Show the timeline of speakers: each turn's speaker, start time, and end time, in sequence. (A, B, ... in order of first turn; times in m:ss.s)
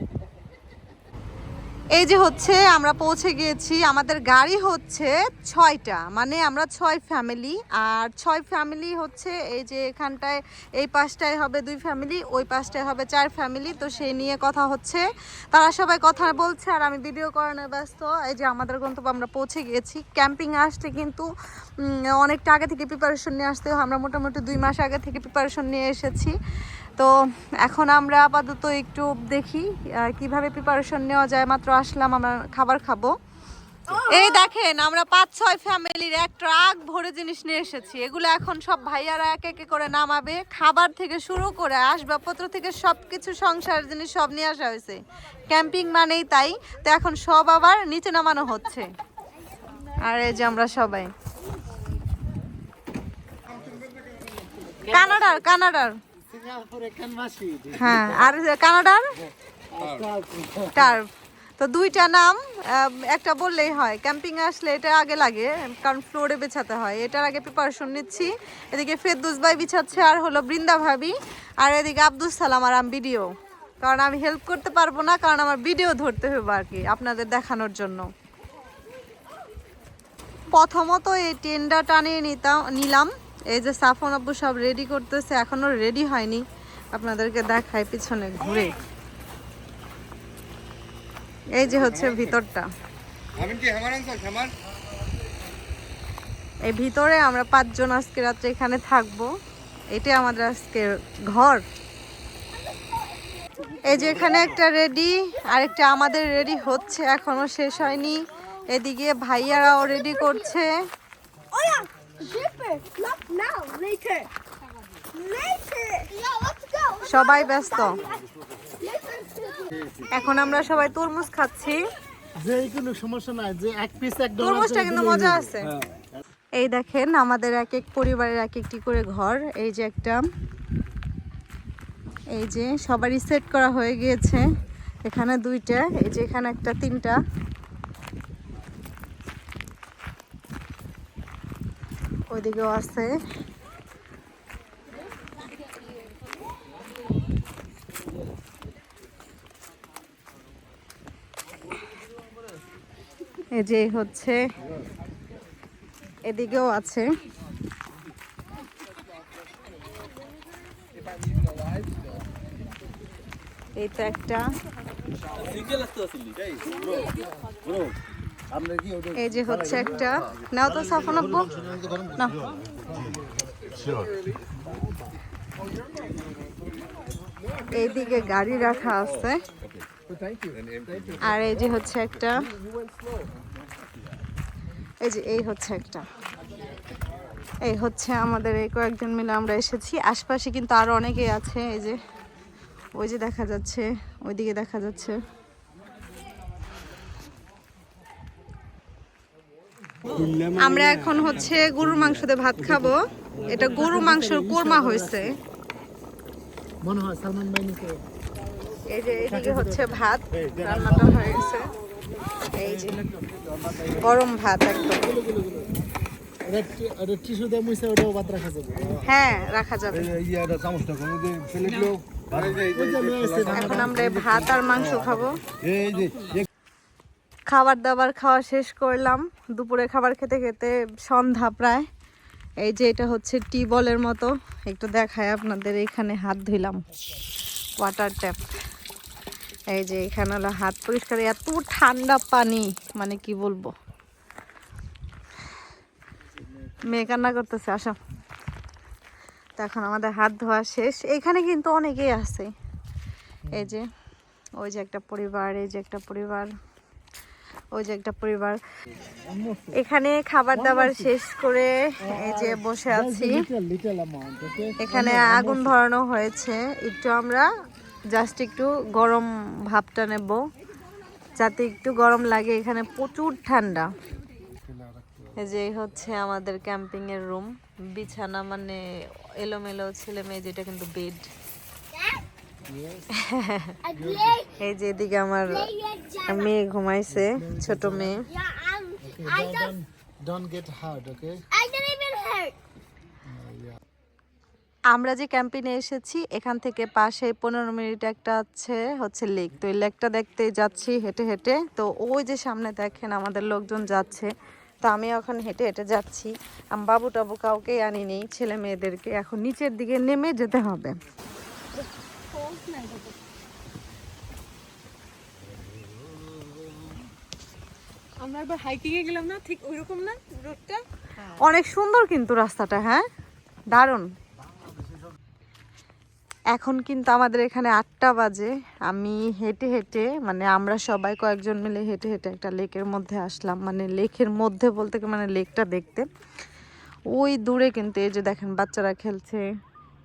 0:01.9-0:21.3 A
0:21.8-0:26.4 A
0:27.6-0:33.1 A
0:33.9-0:48.9 A
0:34.0-0:34.3 B
0:50.0-0:51.1 A
0:54.6-0:55.1 C
0:54.8-0:56.0 A
0:56.2-0:58.3 C
0:57.8-0:59.1 A
0:59.7-1:00.9 C
1:00.7-1:01.1 A
1:01.6-1:13.3 A
1:13.8-1:18.1 A
1:20.5-1:28.8 A
1:31.5-1:32.7 A
1:33.4-1:34.5 D
1:36.6-1:39.3 A
1:39.9-1:41.6 A
1:42.7-1:43.1 B
1:43.8-1:50.8 A
1:51.5-1:54.3 B
1:55.1-1:58.1 B
1:57.0-1:58.0 A
1:58.8-1:59.8 B
2:00.1-2:01.8 A
2:02.4-2:06.1 C
2:04.4-2:05.7 A
2:06.6-2:10.2 A
2:12.3-2:14.4 A
2:15.0-2:17.2 A
2:22.3-2:23.1 A
2:33.5-2:34.4 A
2:36.3-2:37.0 A
2:43.8-2:44.4 A
2:45.6-2:46.6 D
2:48.6-2:49.0 D
2:49.1-2:51.6 A
2:52.2-2:52.4 A
2:57.7-2:59.4 A
3:01.2-3:02.5 A
3:05.0-3:06.0 A
3:07.6-3:12.0 A
3:12.9-3:15.2 A
3:20.0-3:20.9 C
3:20.5-3:25.4 A
3:22.6-3:25.4 C
3:26.8-3:28.0 C
3:28.9-3:31.7 A
3:29.3-3:30.0 C
3:32.5-3:33.0 A
3:34.0-3:35.1 A
3:34.9-3:35.7 C
3:36.4-3:39.0 C
3:39.0-3:40.2 A
3:40.3-3:43.5 D
3:42.4-3:44.1 C
3:43.5-3:45.4 A
3:45.7-3:46.4 D
3:47.5-3:51.8 A
3:52.6-3:56.8 A
3:57.8-3:58.5 A
3:59.7-4:03.7 A
4:06.8-4:08.0 A
4:09.6-4:12.5 A
4:13.4-4:13.7 C
4:13.5-4:13.9 A
4:14.6-4:16.5 A
4:17.7-4:18.6 A
4:19.1-4:19.7 C
4:19.7-4:23.5 A
4:20.5-4:21.1 C
4:22.0-4:25.8 C
4:24.8-4:27.5 A
4:28.1-4:30.4 A
4:31.4-4:33.9 A
4:34.6-4:35.3 C
4:35.4-4:38.8 A
4:39.4-4:41.3 A
4:41.9-4:42.2 B
4:42.7-4:43.1 C
4:43.1-4:43.8 A
4:43.8-4:44.5 B
4:44.0-4:44.3 C
4:44.6-4:45.7 A
4:45.6-4:46.4 B
4:46.2-4:48.3 A
4:47.1-4:48.2 C
4:48.3-4:49.7 B
4:49.0-4:51.4 C
4:51.5-4:52.6 B
4:53.3-4:53.8 C
4:54.9-5:04.3 A
5:04.8-5:11.0 A
5:12.3-5:13.1 B
5:12.4-5:13.0 E
5:18.2-5:20.8 E
5:19.0-5:20.8 B
5:21.4-5:23.0 A
5:23.7-5:24.0 A
5:26.5-5:36.1 A
5:37.1-5:39.4 A